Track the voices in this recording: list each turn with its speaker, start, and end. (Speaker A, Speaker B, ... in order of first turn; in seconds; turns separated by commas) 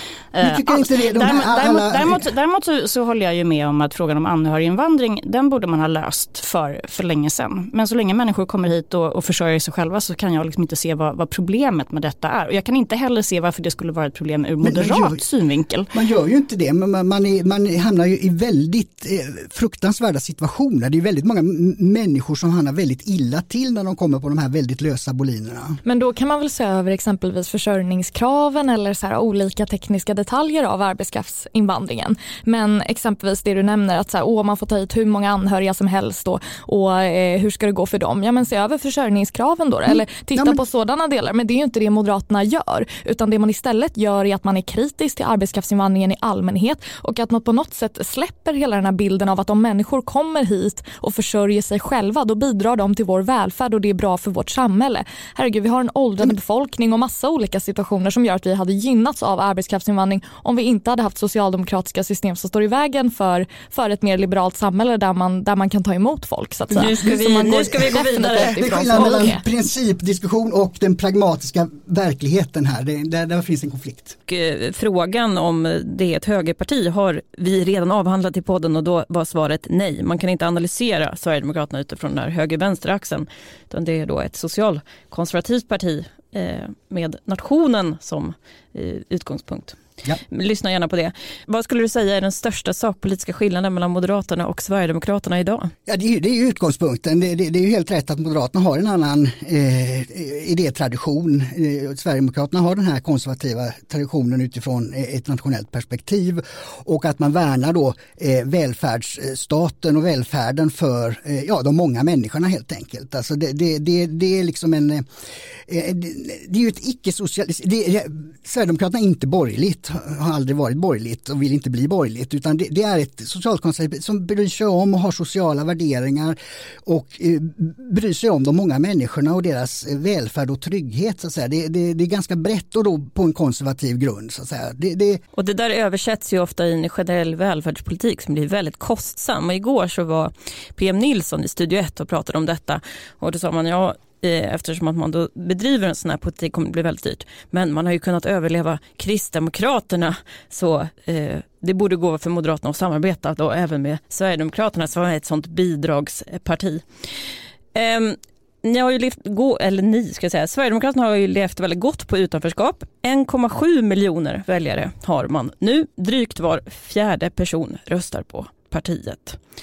Speaker A: 0.3-15.9, Speaker B: 0.4-2.2, Speaker B: 14.6-15.2, Speaker B: 15.9-25.8, Speaker C: 25.8-69.4, Speaker B: 39.9-40.6, Speaker D: 66.7-69.3, Speaker B: 67.6-74.2, Speaker D: 74.3-95.7, Speaker B: 95.9-115.0, Speaker B: 115.7-135.2, Speaker D: 135.3-156.8, Speaker D: 157.7-169.4